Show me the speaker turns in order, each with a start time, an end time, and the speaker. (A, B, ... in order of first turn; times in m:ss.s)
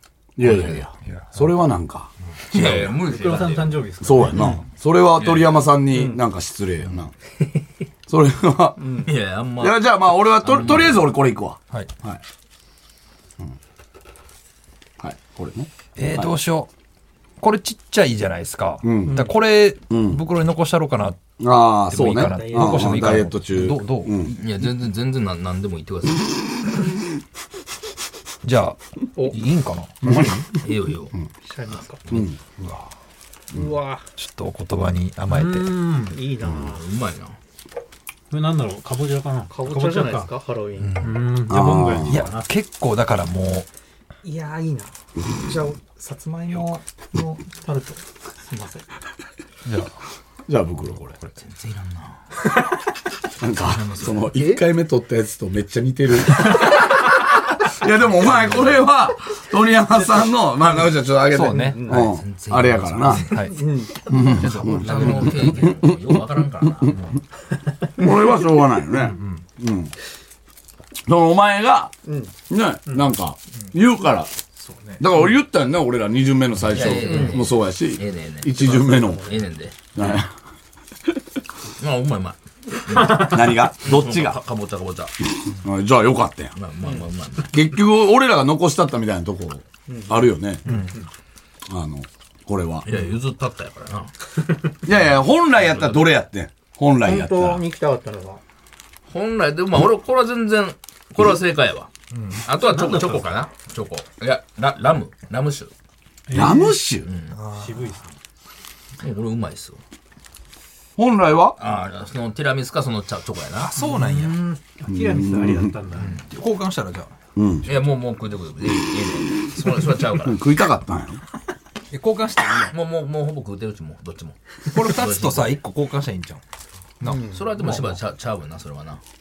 0:00.4-0:02.9 A
0:00.4-0:00.8 B
0:01.0-0:01.5 C
0:02.5-0:03.8 B
0:02.8-0:04.6 D
0:04.0-0:07.1 A
0:05.2-0:05.6 B
0:08.1-0:08.9 A
0:08.8-0:09.1 E
0:09.0-0:11.0 B
0:09.6-0:12.2 A
0:15.0-0:16.3 A
0:16.0-0:16.7 C
0:17.4-0:21.3 C
0:18.8-0:19.2 A
0:19.0-0:19.3 E
0:19.9-0:20.2 A
0:21.4-0:24.3 A
0:21.9-0:24.2 C
0:22.3-0:23.0 D
0:24.3-0:26.3 B
0:28.4-0:30.4 C
0:30.0-0:30.4 A
0:30.6-0:31.1 B
0:31.4-0:32.2 E
0:32.1-0:32.4 A
0:32.5-0:32.9 C
0:33.5-0:34.1 E
0:34.2-0:35.8 C
0:35.3-0:36.2 D
0:36.1-0:36.8 E
0:36.6-0:37.4 B
0:38.3-0:40.3 D
0:39.5-0:41.2 E
0:41.0-0:42.4 D
0:41.5-0:42.2 A
0:42.0-0:43.7 C
0:44.2-0:48.8 E
0:46.5-0:46.8 C
0:49.6-0:49.9 C
0:50.5-0:51.0 A
0:51.0-0:52.2 B
0:53.4-1:03.4 A
0:53.7-0:54.3 B
0:58.2-0:58.9 B
1:01.3-1:01.9 C
1:01.4-1:02.1 E
1:01.9-1:03.5 B
1:03.1-1:03.7 C
1:03.4-1:04.2 E
1:04.1-1:06.9 A
1:04.1-1:07.2 B
1:04.4-1:05.7 C
1:08.0-1:09.9 A
1:11.1-1:11.9 A
1:12.0-1:12.3 E
1:12.5-1:14.3 A
1:14.6-1:15.0 C
1:15.0-1:19.3 A
1:16.6-1:19.8 B
1:16.8-1:17.4 E
1:18.9-1:19.4 E
1:20.0-1:20.3 A
1:21.8-1:25.1 B
1:23.0-1:24.4 A
1:25.4-1:26.5 A
1:26.6-1:27.6 B
1:26.8-1:27.1 E
1:27.4-1:30.6 A
1:29.9-1:31.0 E
1:31.7-1:32.8 A
1:32.8-1:34.8 B
1:34.8-1:37.6 A
1:35.5-1:36.1 B
1:37.0-1:38.4 E
1:39.1-1:45.7 B
1:42.1-1:42.9 C
1:42.7-1:43.2 D
1:46.3-1:46.8 D
1:46.3-1:47.1 A
1:47.0-1:47.4 B
1:47.3-1:48.0 C
1:47.4-1:48.1 D
1:49.0-1:49.8 B
1:51.0-1:51.6 A
1:51.6-1:53.7 B
1:53.6-1:54.5 C
1:53.9-1:56.2 D
1:54.9-1:55.7 A
1:56.0-1:56.2 B
1:56.3-1:57.1 C
1:57.4-1:57.6 A
1:57.6-2:00.4 B
2:00.2-2:01.2 A
2:01.9-2:02.7 C
2:02.7-2:05.6 B
2:04.7-2:06.4 C
2:07.0-2:07.9 C
2:07.0-2:07.4 E
2:07.2-2:09.0 B